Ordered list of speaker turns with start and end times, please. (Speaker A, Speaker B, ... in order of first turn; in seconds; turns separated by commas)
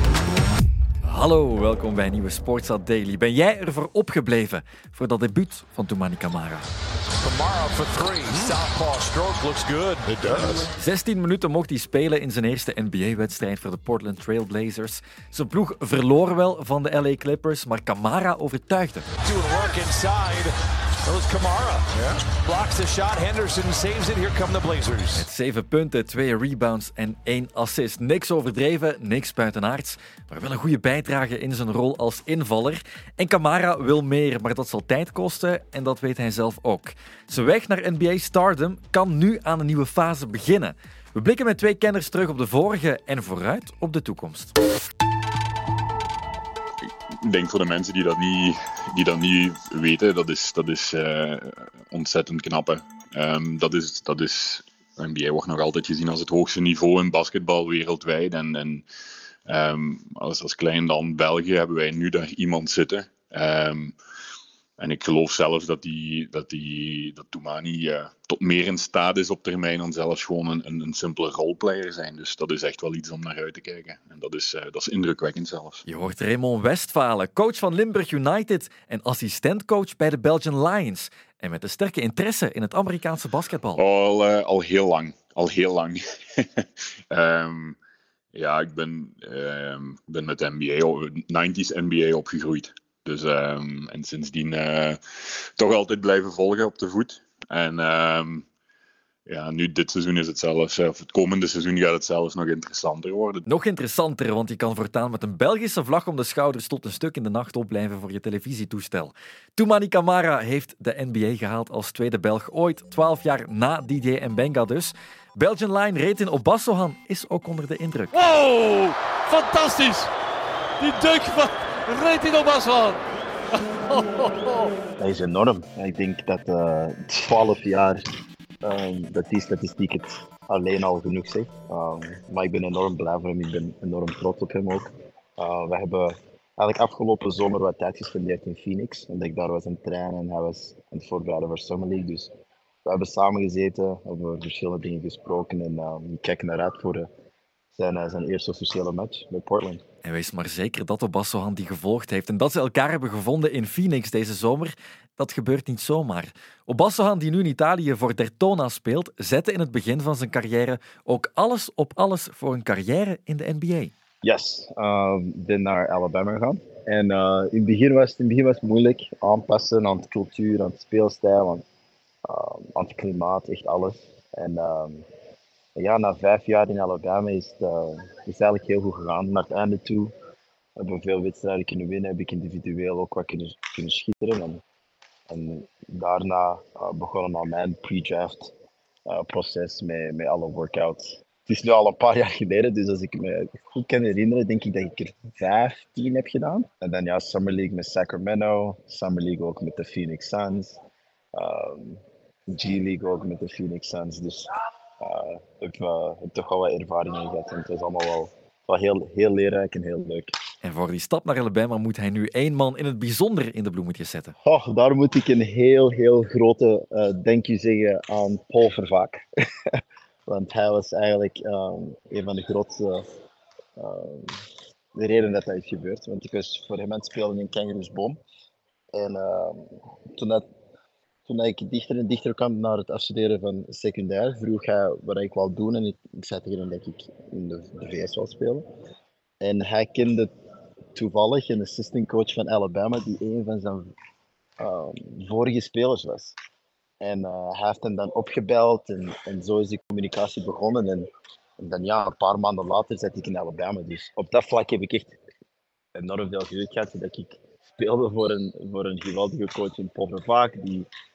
Speaker A: 1.1-6.7, Speaker B: 7.2-10.6, Speaker A: 10.8-19.1, Speaker B: 19.2-20.5, Speaker B: 21.1-25.2, Speaker A: 25.1-44.5, Speaker C: 47.2-58.8, Speaker C: 59.5-63.9, Speaker C: 64.8-75.8, Speaker A: 75.9-83.8, Speaker C: 83.8-87.8, Speaker C: 88.3-98.4, Speaker C: 99.3-103.4, Speaker A: 103.5-118.1, Speaker D: 118.2-120.1, Speaker D: 120.8-123.0, Speaker D: 123.9-124.6, Speaker E: 125.0-128.0, Speaker E: 128.6-142.3, Speaker E: 142.8-147.1, Speaker E: 147.7-149.8, Speaker A: 150.0-163.9, Speaker E: 164.2-171.6, Speaker E: 172.2-175.0, Speaker E: 175.8-180.1, Speaker E: 180.8-184.6, Speaker E: 185.3-188.5, Speaker E: 189.1-200.8, Speaker E: 201.3-202.0, Speaker E: 202.5-204.5, Speaker E: 205.0-210.3, Speaker A: 210.6-214.3, Speaker E: 214.4-219.2, Speaker E: 220.2-223.0, Speaker E: 223.8-224.3, Speaker E: 224.9-228.2, Speaker E: 228.9-230.4, Speaker E: 231.2-238.6, Speaker E: 239.4-240.3, Speaker E: 240.9-243.9, Speaker E: 244.6-246.3, Speaker E: 247.0-251.1, Speaker E: 251.6-255.2, Speaker E: 255.9-260.9